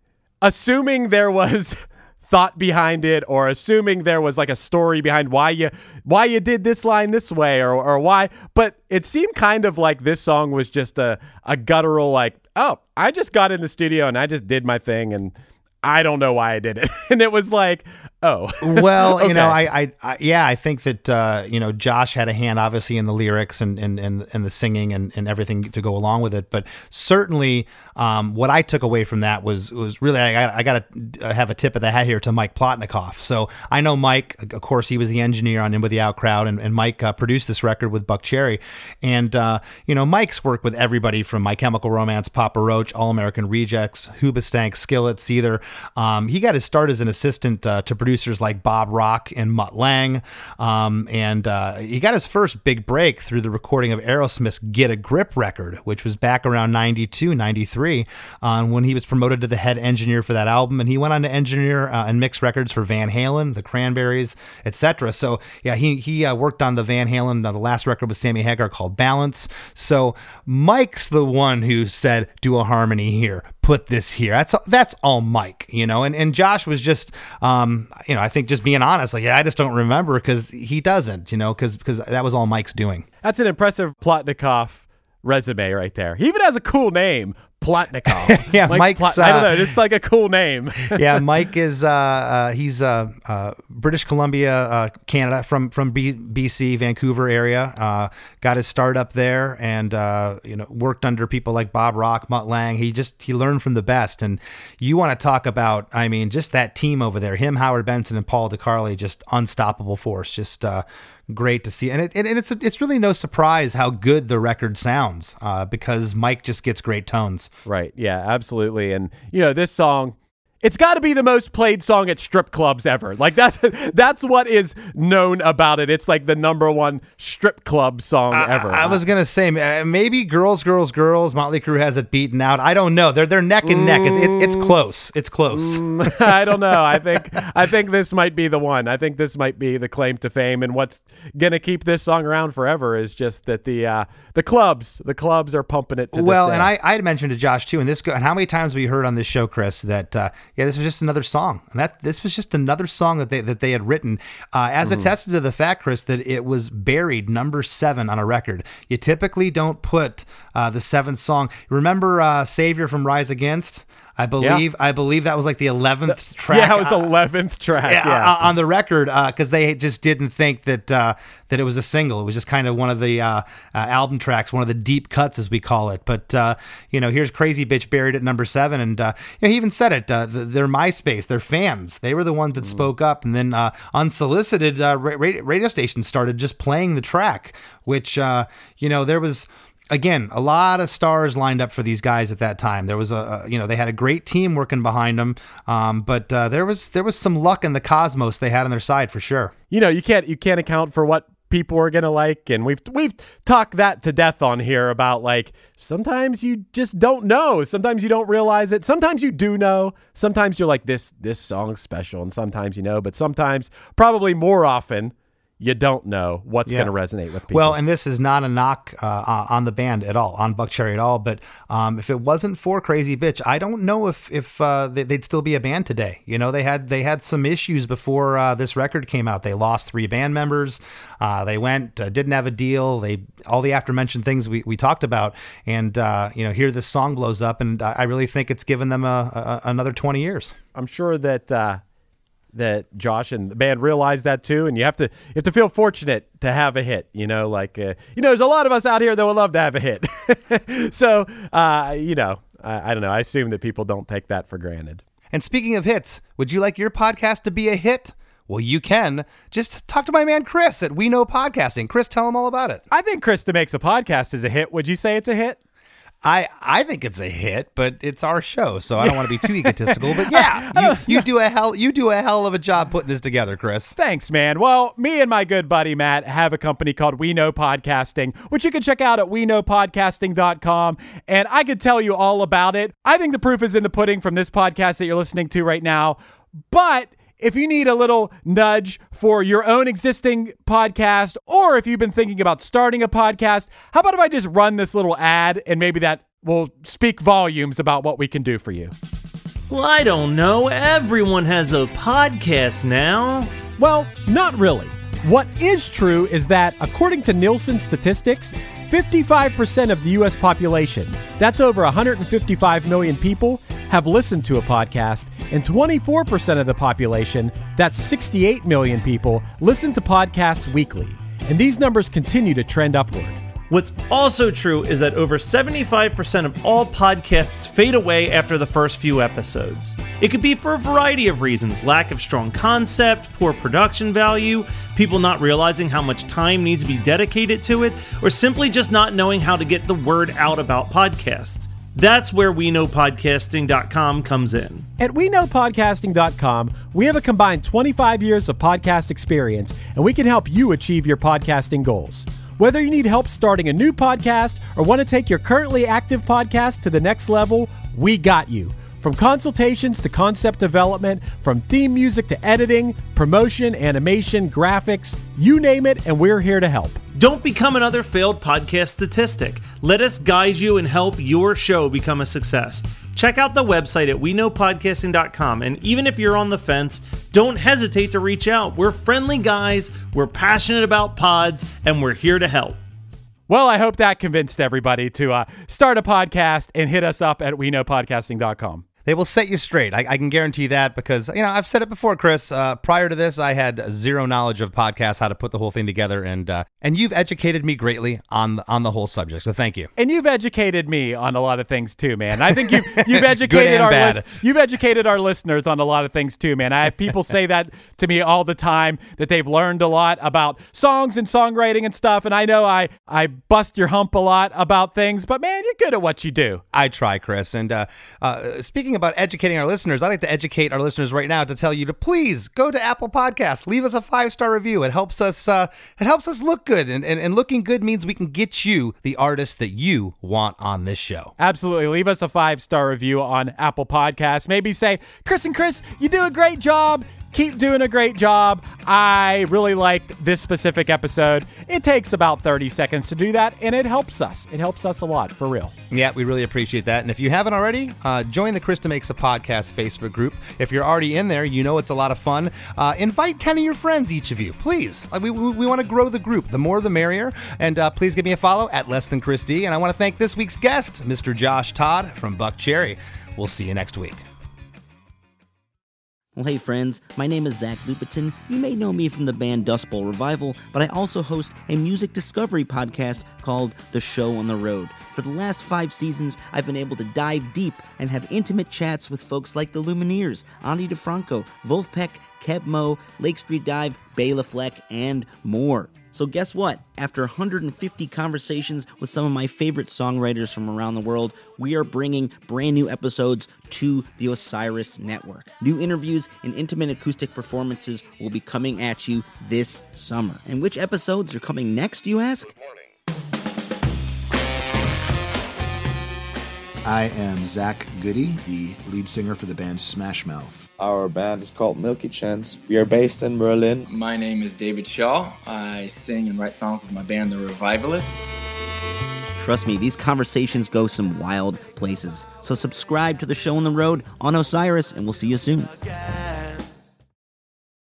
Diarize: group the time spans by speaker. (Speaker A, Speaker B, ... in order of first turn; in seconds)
Speaker A: 0.4-19.6, 83.2-91.2, 117.7-129.0, 133.6-134.7, 135.5-146.7, 154.8-155.1, 166.1-168.5, 199.7-217.8, 240.7-241.8, 242.5-255.0, 262.9-265.6, 269.0-271.2, 274.0-286.2, 286.7-298.9, 303.8-323.4, 345.0-367.0, 383.5-388.8, 400.0-416.6, 431.4-445.7
Speaker B: 18.6-83.0, 88.2-89.7, 90.9-117.5, 128.3-137.0, 146.1-167.1, 167.8-199.5, 216.7-216.9, 217.5-240.5, 255.3-262.8, 266.2-273.9, 389.1-399.9, 402.6-404.3, 416.7-431.3, 445.9-464.2
Speaker C: 299.7-303.5, 323.7-344.9, 367.1-382.8
Speaker D: 466.3-502.6, 519.4-525.9
Speaker E: 506.8-510.6
Speaker F: 510.8-513.9
Speaker G: 513.9-518.3